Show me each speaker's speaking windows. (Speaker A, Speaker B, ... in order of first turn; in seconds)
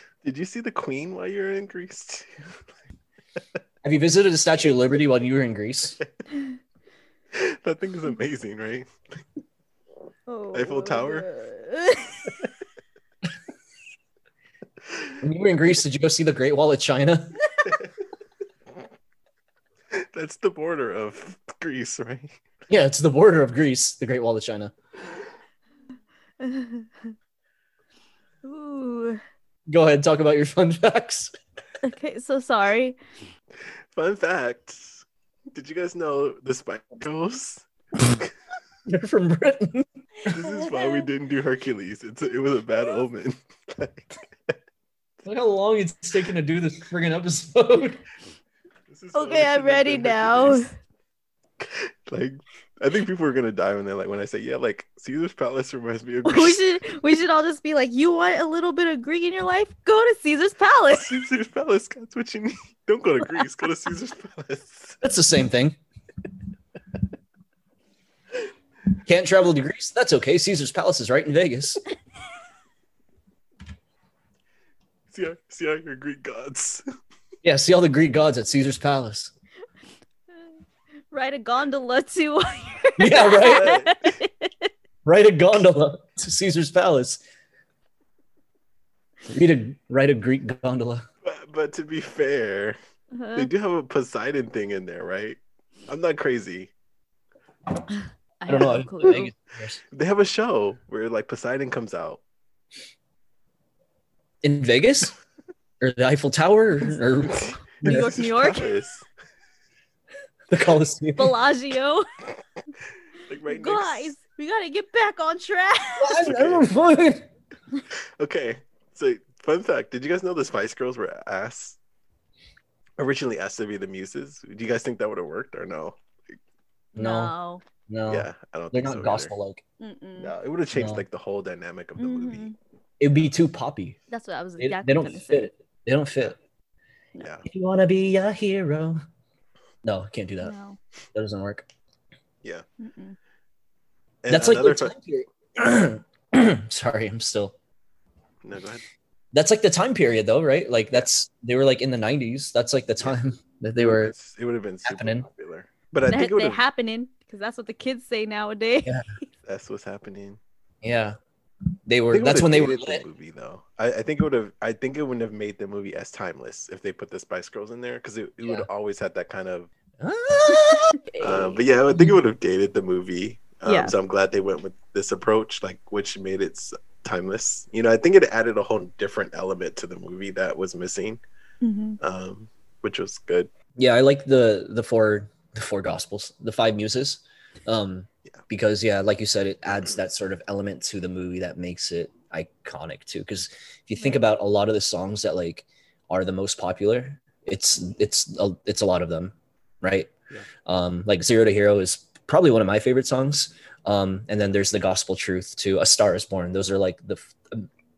Speaker A: 0.2-2.4, 7.3-8.9, 10.5-11.3, 19.9-22.3, 33.9-35.0, 35.5-38.3, 40.3-44.5, 48.9-50.6, 51.6-56.6, 60.9-65.0, 75.1-76.8, 83.4-84.2, 91.2-92.8, 93.3-96.7, 99.9-102.2, 107.2-109.1, 113.3-114.1, 116.2-116.7, 118.2-121.8, 123.0-126.0, 128.1-129.3, 130.2-132.5, 137.2-137.4, 144.2-144.9, 148.4-148.8, 153.8-156.6, 159.4-160.4, 162.1-169.7, 171.2-181.2, 182.0-183.5
Speaker B: 3.8-6.0, 15.2-17.4, 22.7-24.7, 29.7-31.3, 38.9-39.9, 45.2-48.0, 65.0-65.8, 69.0-71.8, 77.4-79.3, 83.0-83.7, 85.0-87.2, 89.3-91.0, 98.5-99.8, 104.4-105.1, 105.8-108.1, 110.5-111.4, 116.0-117.3, 127.0-127.3, 127.9-129.6, 130.7-131.0, 133.0-134.0, 134.6-136.3, 137.4-139.0, 139.8-140.5, 141.1-141.7, 144.3-147.5, 149.3-154.1, 154.8-155.3, 160.8-161.2, 161.9-163.0, 168.4-168.7, 170.0-171.0, 183.8-200.1, 200.6-207.7
Speaker C: 10.3-12.3, 26.4-27.1, 28.4-29.2, 31.8-33.0, 40.3-41.0, 49.1-50.7, 56.2-61.2, 81.1-84.7, 93.1-93.5, 97.9-99.3, 107.8-108.7, 111.2-112.0, 113.5-116.2, 127.0-127.6, 129.8-130.3, 132.0-132.6, 134.1-135.5, 140.4-140.8, 142.8-143.2, 156.1-159.2, 170.5-171.6, 173.6-173.9, 181.6-182.0